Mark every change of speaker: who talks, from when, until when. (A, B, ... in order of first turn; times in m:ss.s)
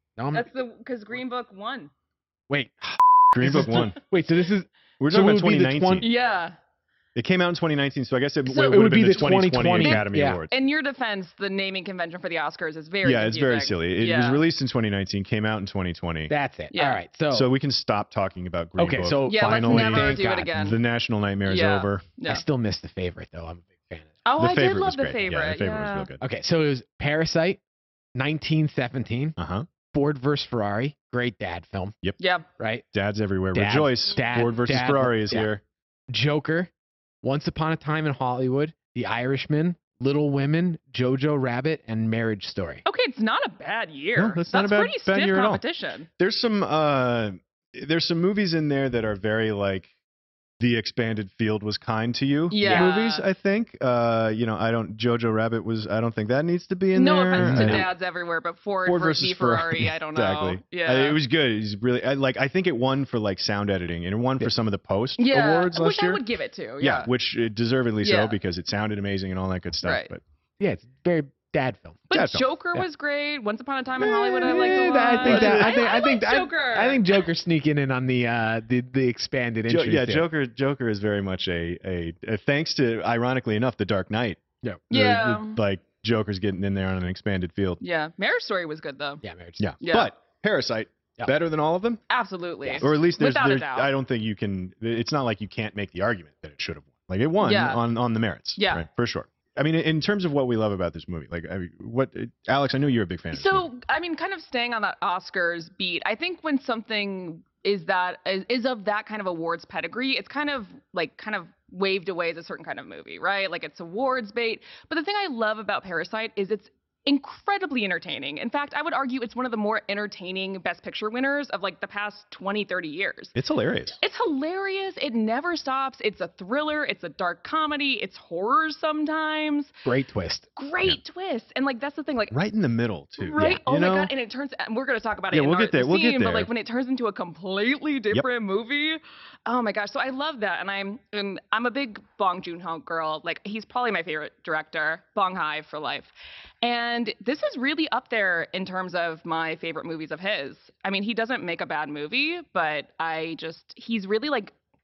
0:00.2-0:00.5 A
0:00.3-0:01.9 B
0:02.5-0:06.1 A
0:03.4-0:04.0 C
0:05.0-0:06.1 C
0:06.0-0:06.6 B
0:07.2-0:10.5 C
0:08.5-0:09.0 B
0:08.6-0:10.4 A
0:09.8-0:14.4 B
0:13.0-0:16.3 C
0:16.3-0:17.5 A
0:16.7-0:17.0 B
0:17.3-0:22.1 C
0:18.8-0:20.6 A
0:19.3-0:20.8 B
0:21.5-0:22.4 B
0:22.2-0:24.2 A
0:24.2-0:26.1 B
0:24.4-0:26.2 C
0:26.2-0:27.6 A
0:28.2-0:29.4 A
0:29.4-0:29.7 C
0:29.9-0:32.0 A
0:32.2-0:32.5 B
0:32.6-0:32.8 A
0:32.9-0:35.6 C
0:33.5-0:35.5 A
0:34.3-0:34.6 B
0:36.1-0:36.7 A
0:37.2-0:42.8 A
0:42.8-0:46.1 B
0:44.2-0:45.6 C
0:46.2-0:49.9 C
0:50.6-0:57.9 C
0:52.5-0:53.3 B
0:56.9-1:01.2 B
0:57.4-0:57.9 A
0:58.8-1:06.2 C
1:05.2-1:07.1 B
1:06.8-1:10.2 C
1:08.0-1:08.4 B
1:09.8-1:10.1 B
1:10.6-1:12.2 A
1:12.1-1:17.1 B
1:12.1-1:12.8 C
1:14.0-1:20.3 A
1:14.6-1:15.9 C
1:19.7-1:27.8 C
1:24.9-1:25.6 B
1:27.8-1:29.2 B
1:29.2-1:29.7 A
1:29.6-1:32.0 C
1:29.8-1:30.1 B
1:32.1-1:33.9 B
1:32.8-1:43.7 C
1:37.4-1:37.8 B
1:38.6-1:38.8 B
1:43.3-2:03.4 B
2:03.4-2:04.0 C
2:04.0-2:09.7 B
2:09.8-2:10.5 A
2:10.6-2:12.4 B
2:12.3-2:14.1 C
2:13.2-2:26.1 B
2:15.3-2:16.5 C
2:26.6-2:34.5 B